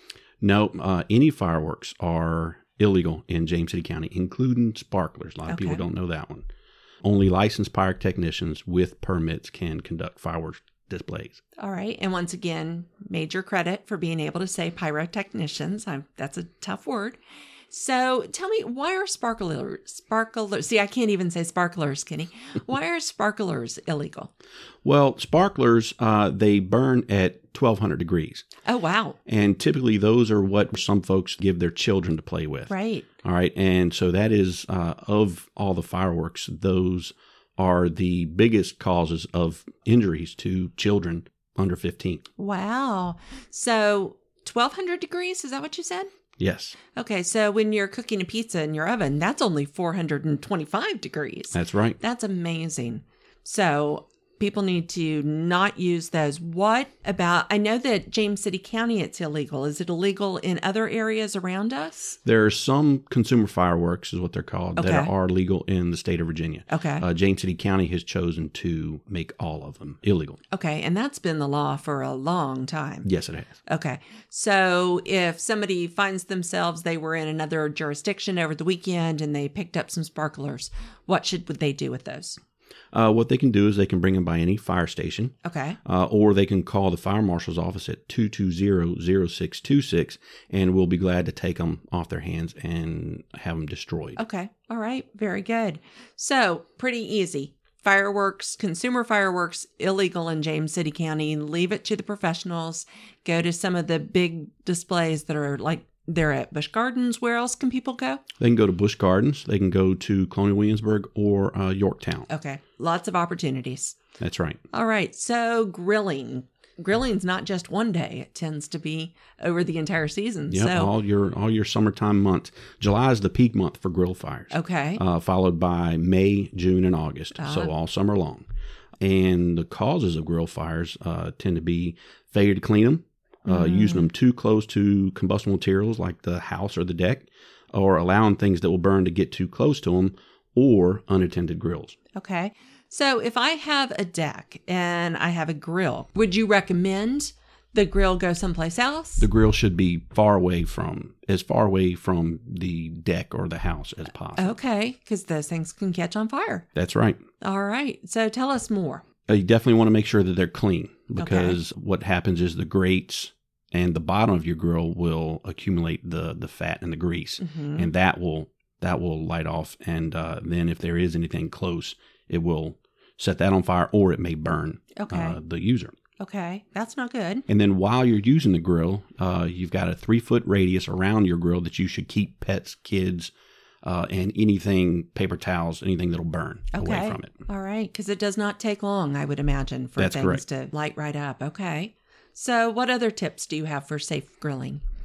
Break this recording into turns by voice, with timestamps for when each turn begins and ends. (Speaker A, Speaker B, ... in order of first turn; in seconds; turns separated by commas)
Speaker A: 0.4-6.5, Speaker B: 5.5-5.8, Speaker A: 7.0-11.4, Speaker B: 11.6-17.2, Speaker B: 17.7-24.3, Speaker A: 24.8-28.4, Speaker B: 28.6-29.2, Speaker A: 29.2-32.7, Speaker B: 32.7-33.1, Speaker A: 33.2-42.2, Speaker B: 42.4-46.1, Speaker A: 46.4-46.8, Speaker B: 46.9-62.2, Speaker A: 51.5-52.0, Speaker A: 62.2-70.4, Speaker B: 64.8-65.1, Speaker B: 66.7-67.0, Speaker B: 70.5-73.1, Speaker A: 73.0-73.5, Speaker B: 73.7-82.4, Speaker A: 82.9-85.3, Speaker B: 85.4-85.8, Speaker A: 85.8-94.2, Speaker B: 94.2-108.2, Speaker A: 108.4-112.3, Speaker B: 112.3-114.0, Speaker A: 114.2-114.6, Speaker B: 114.7-120.9, Speaker A: 120.5-128.5, Speaker B: 124.5-125.0, Speaker B: 127.3-127.7, Speaker A: 129.0-142.0, Speaker B: 133.5-134.1, Speaker B: 142.1-149.3, Speaker A: 149.2-154.5, Speaker B: 154.4-156.6, Speaker A: 156.7-157.2, Speaker B: 157.4-159.0, Speaker A: 159.3-175.9, Speaker B: 161.2-161.6, Speaker B: 167.4-167.9, Speaker B: 174.9-175.4, Speaker B: 176.2-177.4, Speaker A: 177.5-183.3, Speaker A: 183.8-187.4, Speaker B: 186.7-194.8, Speaker A: 190.0-190.4